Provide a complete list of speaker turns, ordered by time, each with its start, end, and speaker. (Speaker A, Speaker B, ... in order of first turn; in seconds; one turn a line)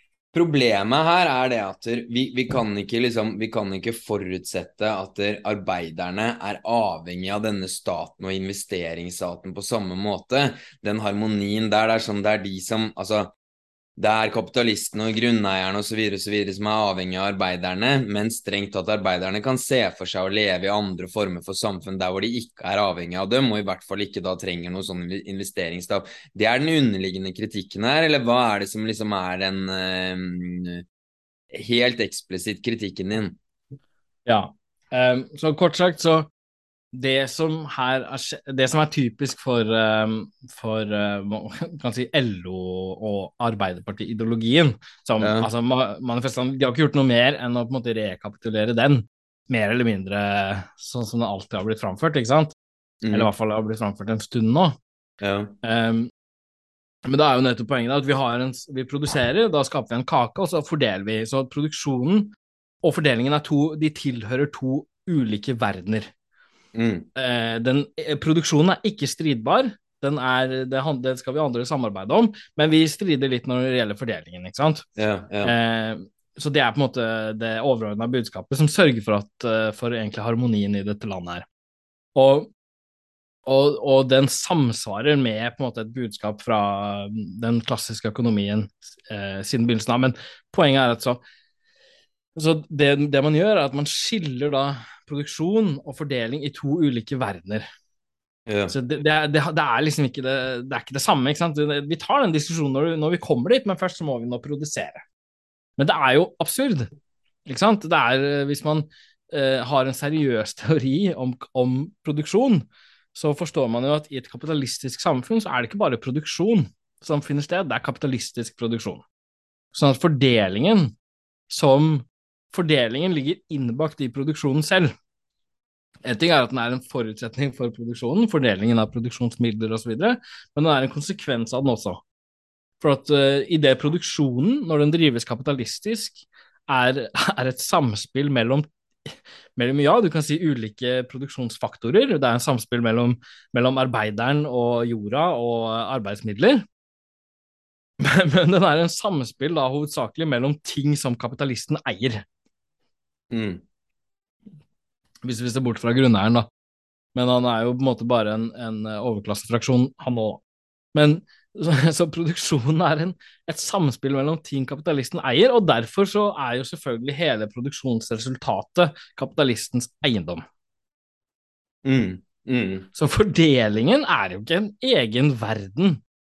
Speaker A: 0.3-13.3
Speaker A: 14.0-30.8
Speaker A: 31.5-33.4
Speaker B: 34.3-36.3
Speaker B: 36.9-52.5
Speaker A: 45.2-45.5
Speaker A: 53.0-53.3
Speaker B: 53.1-54.8
Speaker A: 55.2-55.5
Speaker B: 55.6-56.1
Speaker B: 57.1-66.1
Speaker A: 66.7-67.1
Speaker B: 67.2-74.8
Speaker A: 75.0-75.5
Speaker B: 75.4-81.5
Speaker B: 82.2-82.5
Speaker B: 83.5-91.2
Speaker B: 92.4-97.7
Speaker A: 98.5-98.7
Speaker B: 98.7-105.0
Speaker B: 105.8-106.9
Speaker B: 107.5-119.0
Speaker B: 119.7-120.9
Speaker B: 121.5-124.9
Speaker B: 126.0-132.0
Speaker B: 132.8-146.6
Speaker B: 148.0-152.2
Speaker A: 153.3-153.6
Speaker B: 155.2-156.5
Speaker B: 157.2-160.4
Speaker B: 160.9-170.4
Speaker A: 171.8-172.9
Speaker B: 172.9-176.0